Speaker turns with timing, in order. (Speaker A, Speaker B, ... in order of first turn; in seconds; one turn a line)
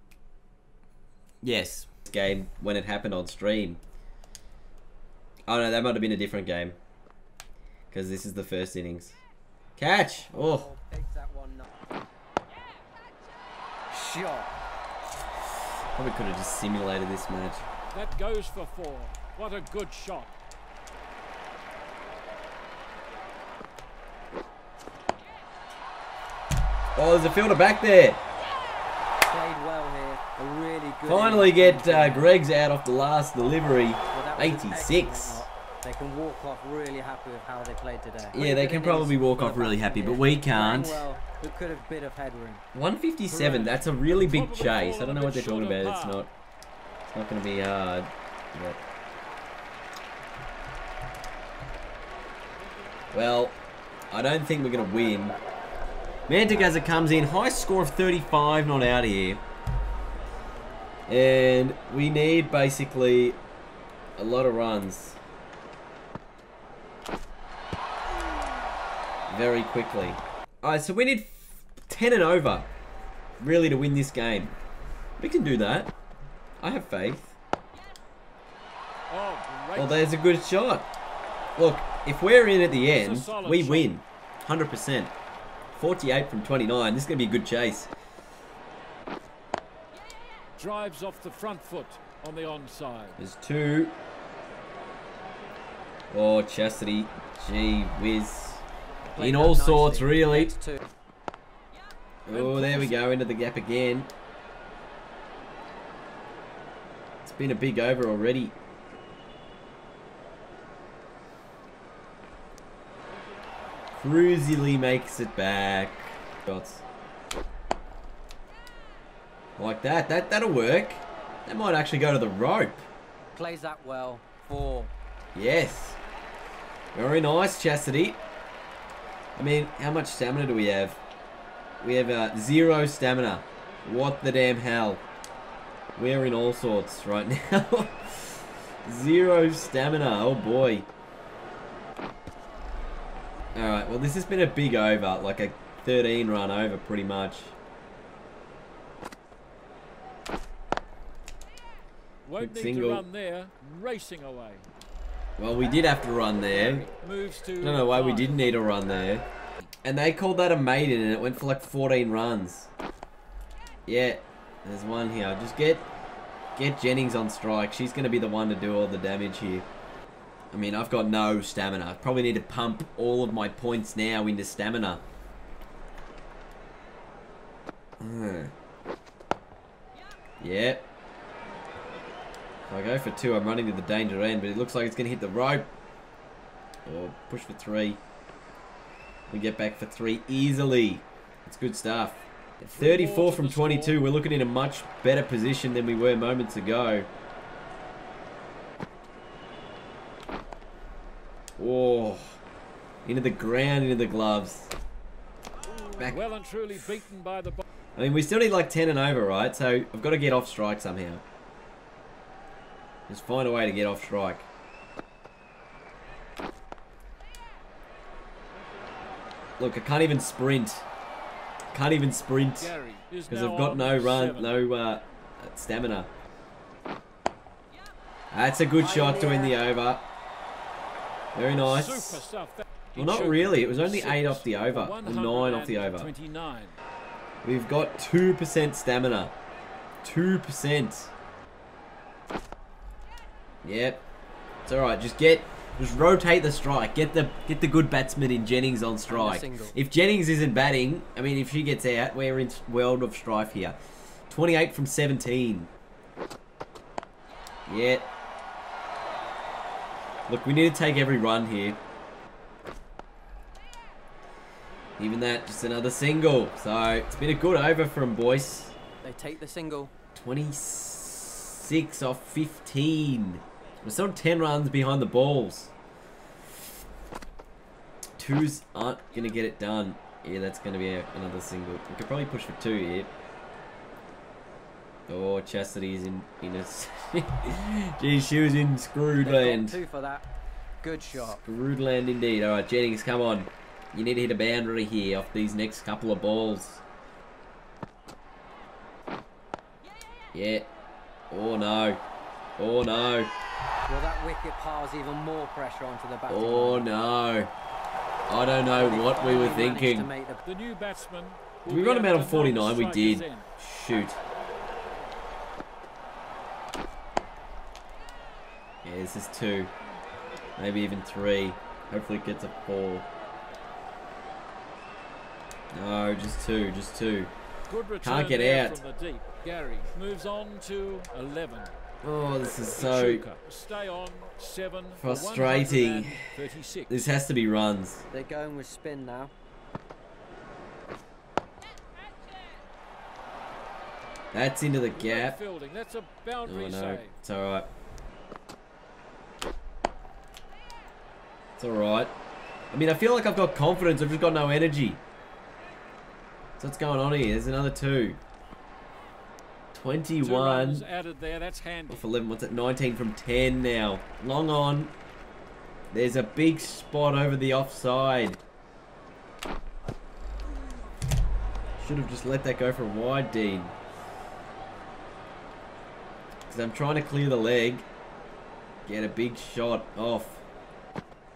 Speaker A: 1.4-3.8
Speaker A: 5.5-6.8
Speaker A: 7.9-9.2
Speaker A: 9.8-10.7
Speaker B: 10.3-11.9
Speaker B: 13.9-14.5
Speaker A: 15.9-17.6
Speaker C: 17.9-20.3
Speaker A: 27.0-28.2
Speaker B: 29.3-32.4
Speaker A: 31.1-35.4
Speaker B: 34.1-42.6
Speaker A: 38.3-41.0
Speaker A: 42.7-46.3
Speaker C: 43.3-46.3
Speaker A: 47.1-48.8
Speaker A: 53.1-53.6
Speaker A: 54.1-55.4
Speaker A: 56.3-59.4
Speaker A: 61.1-63.4
Speaker A: 64.2-65.2
Speaker A: 69.3-72.7
Speaker A: 73.4-74.6
Speaker A: 75.2-75.9
Speaker A: 76.6-77.4
Speaker C: 79.1-80.0
Speaker A: 79.8-80.9
Speaker A: 81.6-85.1
Speaker C: 82.8-83.9
Speaker A: 85.7-87.9
Speaker C: 90.6-93.2
Speaker A: 93.2-94.0
Speaker A: 96.1-98.7
Speaker B: 99.1-100.8
Speaker A: 99.2-100.5
Speaker A: 102.3-104.1
Speaker C: 102.3-103.0
Speaker A: 107.2-108.6
Speaker A: 114.0-116.8
Speaker A: 119.6-122.8
Speaker B: 123.3-124.9
Speaker A: 125.3-126.0
Speaker A: 126.9-128.2
Speaker A: 129.4-131.0
Speaker A: 131.8-135.0
Speaker A: 136.0-140.9
Speaker A: 143.6-147.6
Speaker C: 152.3-154.7
Speaker A: 152.4-153.1
Speaker A: 155.4-156.9
Speaker C: 156.4-158.9
Speaker A: 157.6-159.3
Speaker A: 159.8-162.7
Speaker A: 163.9-165.9
Speaker A: 166.6-169.7
Speaker A: 170.5-175.0
Speaker A: 178.0-178.5
Speaker A: 180.4-180.9
Speaker A: 182.7-185.7
Speaker A: 186.8-188.0
Speaker A: 189.3-197.1
Speaker C: 192.7-194.1
Speaker A: 201.6-202.4
Speaker A: 203.1-204.7
Speaker C: 206.0-207.6
Speaker A: 208.0-211.2
Speaker A: 213.1-214.5
Speaker A: 219.6-220.9
Speaker A: 221.7-222.8
Speaker C: 222.6-224.6
Speaker A: 223.3-226.1
Speaker A: 228.3-230.1
Speaker B: 228.8-229.6
Speaker A: 231.3-232.2
Speaker C: 231.6-236.8
Speaker A: 233.0-236.1
Speaker A: 237.4-239.3
Speaker A: 240.0-241.1
Speaker A: 243.6-244.1
Speaker A: 244.7-253.8
Speaker B: 249.1-249.8
Speaker A: 254.3-255.7
Speaker A: 257.7-258.1
Speaker A: 260.3-261.8
Speaker A: 265.0-268.8
Speaker B: 269.0-269.9
Speaker A: 270.1-275.7
Speaker A: 278.2-283.1
Speaker A: 285.1-289.8
Speaker B: 289.2-290.3
Speaker B: 290.8-291.4
Speaker A: 291.3-296.8
Speaker A: 300.3-300.7
Speaker A: 301.3-302.0
Speaker A: 302.6-303.3
Speaker B: 303.9-306.9
Speaker A: 306.3-307.5
Speaker A: 308.3-310.1
Speaker B: 308.7-310.4
Speaker C: 310.4-313.5
Speaker A: 311.7-314.2
Speaker A: 318.8-319.7
Speaker A: 320.6-323.1
Speaker A: 325.7-327.3
Speaker C: 327.7-331.7
Speaker A: 328.0-328.8
Speaker A: 332.0-333.2
Speaker C: 332.8-337.1
Speaker A: 335.0-336.2
Speaker A: 336.9-338.1
Speaker B: 338.1-339.3
Speaker A: 344.3-345.4
Speaker C: 344.9-347.1
Speaker A: 346.4-347.7
Speaker A: 351.6-352.1
Speaker A: 352.7-355.0
Speaker A: 356.6-358.2
Speaker A: 359.7-360.9
Speaker C: 360.2-362.1
Speaker A: 361.9-364.9
Speaker A: 365.9-368.4
Speaker A: 371.8-373.8
Speaker A: 376.5-377.9
Speaker A: 378.9-380.4